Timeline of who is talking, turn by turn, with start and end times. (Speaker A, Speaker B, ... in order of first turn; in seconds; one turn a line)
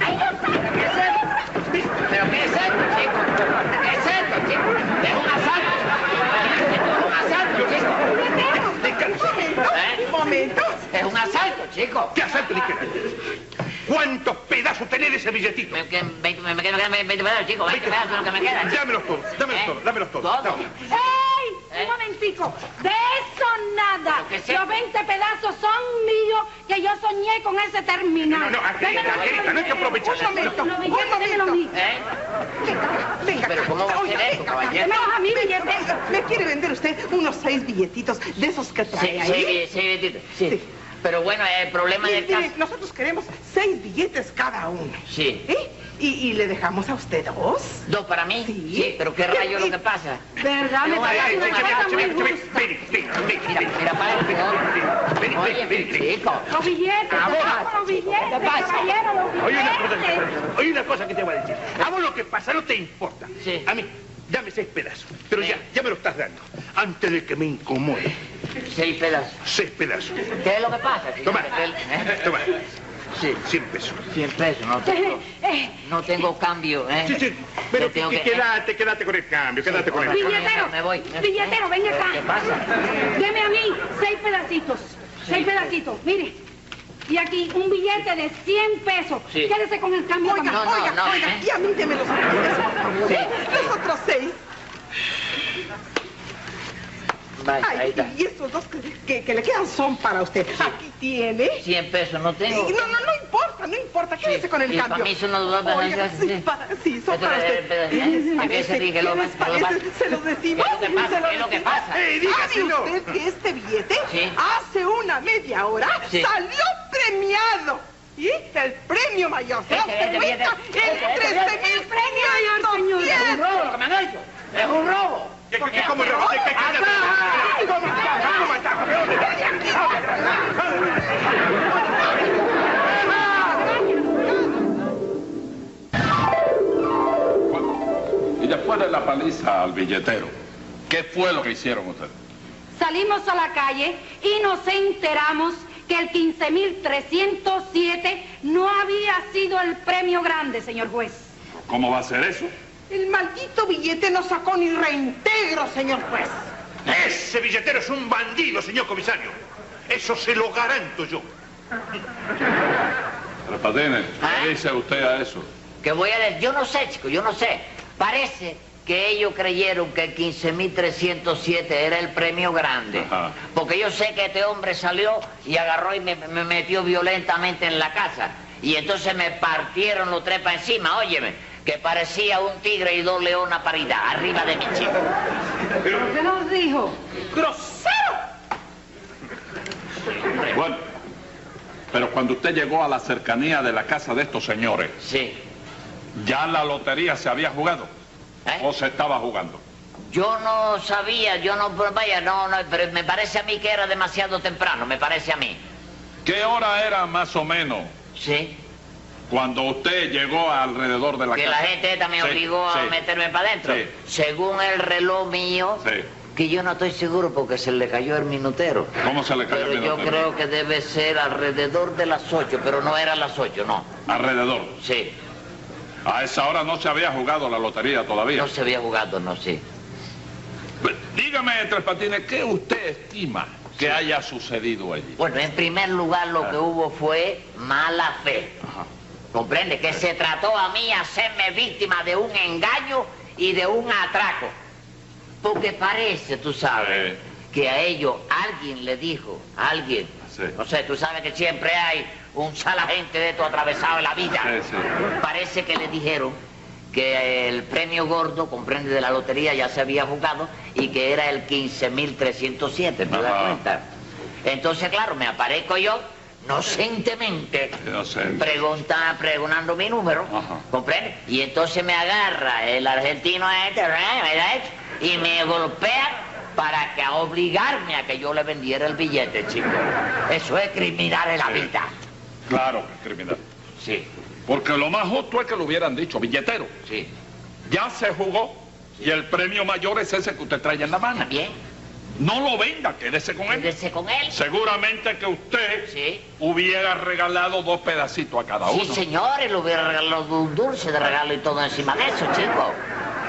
Speaker A: 0.6-1.2
Speaker A: 2.0-8.1
Speaker B: 8.0-10.8
Speaker C: 8.5-9.4
Speaker A: 9.7-10.0
Speaker A: 10.9-12.1
Speaker C: 12.1-13.1
Speaker C: 13.8-15.8
Speaker A: 15.7-18.8
Speaker C: 17.7-20.7
Speaker A: 19.5-20.7
Speaker D: 20.8-31.8
Speaker A: 24.1-24.6
Speaker C: 28.3-30.4
Speaker B: 29.0-31.7
Speaker A: 31.7-32.0
Speaker B: 32.6-39.6
Speaker A: 33.4-34.9
Speaker D: 34.7-35.9
Speaker A: 38.9-42.5
Speaker B: 42.0-47.8
Speaker A: 45.1-45.4
Speaker A: 47.9-50.2
Speaker B: 48.4-49.7
Speaker D: 50.4-52.7
Speaker A: 50.8-52.1
Speaker C: 50.9-56.1
Speaker A: 53.5-54.7
Speaker A: 55.2-56.5
Speaker D: 56.5-60.2
Speaker A: 57.1-57.7
Speaker C: 57.3-57.5
Speaker A: 58.2-58.8
Speaker C: 59.4-68.2
Speaker A: 63.4-63.7
Speaker A: 65.4-65.6
Speaker A: 68.6-69.4
Speaker C: 69.4-70.3
Speaker A: 70.3-72.2
Speaker C: 71.2-72.6
Speaker A: 73.1-73.4
Speaker C: 73.4-74.0
Speaker A: 74.1-75.2
Speaker D: 74.8-75.8
Speaker A: 75.8-78.5
Speaker C: 77.0-80.3
Speaker A: 79.7-82.6
Speaker D: 80.1-82.3
Speaker D: 83.0-86.3
Speaker D: 87.1-90.7
Speaker B: 90.2-94.4
Speaker A: 90.5-91.4
Speaker A: 93.0-93.7
Speaker A: 97.4-98.1
Speaker B: 97.6-101.6
Speaker A: 101.6-102.9
Speaker B: 102.5-123.4
Speaker A: 104.2-106.4
Speaker A: 107.1-109.8
Speaker A: 110.5-112.0
Speaker C: 111.9-113.0
Speaker A: 114.1-114.4
Speaker A: 119.7-121.6
Speaker D: 121.5-123.4
Speaker A: 123.1-125.9
Speaker C: 125.5-129.3
Speaker B: 125.6-130.6
Speaker A: 126.6-127.4
Speaker B: 131.8-132.2
Speaker B: 133.1-133.7
Speaker E: 137.5-137.7
Speaker E: 138.4-140.3
Speaker E: 140.9-142.1
Speaker D: 142.8-151.3
Speaker E: 151.7-152.5
Speaker B: 152.9-156.5
Speaker C: 156.8-159.3
Speaker C: 159.9-161.2
Speaker E: 163.4-165.4
Speaker A: 164.2-164.5
Speaker A: 165.8-185.0
Speaker E: 172.9-173.3
Speaker D: 185.9-187.0
Speaker B: 187.3-188.2
Speaker E: 190.5-190.8
Speaker E: 191.9-194.9
Speaker A: 195.0-195.4
Speaker E: 196.2-197.9
Speaker E: 198.6-199.6
Speaker A: 200.1-205.6
Speaker E: 206.2-207.9
Speaker A: 208.1-208.6
Speaker E: 209.3-211.7
Speaker A: 211.3-218.9
Speaker E: 212.2-212.9
Speaker E: 215.8-216.1
Speaker E: 219.0-220.3
Speaker A: 219.5-223.9
Speaker E: 224.1-224.8
Speaker A: 224.8-225.1
Speaker E: 226.0-228.5
Speaker A: 228.3-229.6
Speaker E: 230.8-235.2
Speaker A: 235.2-238.6
Speaker A: 239.3-244.5
Speaker A: 245.4-254.5
Speaker E: 246.7-247.2
Speaker E: 254.4-254.9
Speaker A: 255.2-256.4
Speaker A: 256.9-263.8
Speaker E: 263.1-263.6
Speaker A: 264.4-267.8
Speaker E: 267.8-268.4
Speaker A: 268.3-281.9
Speaker E: 270.3-270.6
Speaker E: 282.5-283.4
Speaker A: 283.8-284.1
Speaker E: 284.5-286.7
Speaker E: 287.7-291.3
Speaker A: 291.1-291.6
Speaker E: 292.2-293.7
Speaker A: 293.5-294.4
Speaker E: 294.3-299.0
Speaker A: 295.9-296.2
Speaker A: 298.6-302.8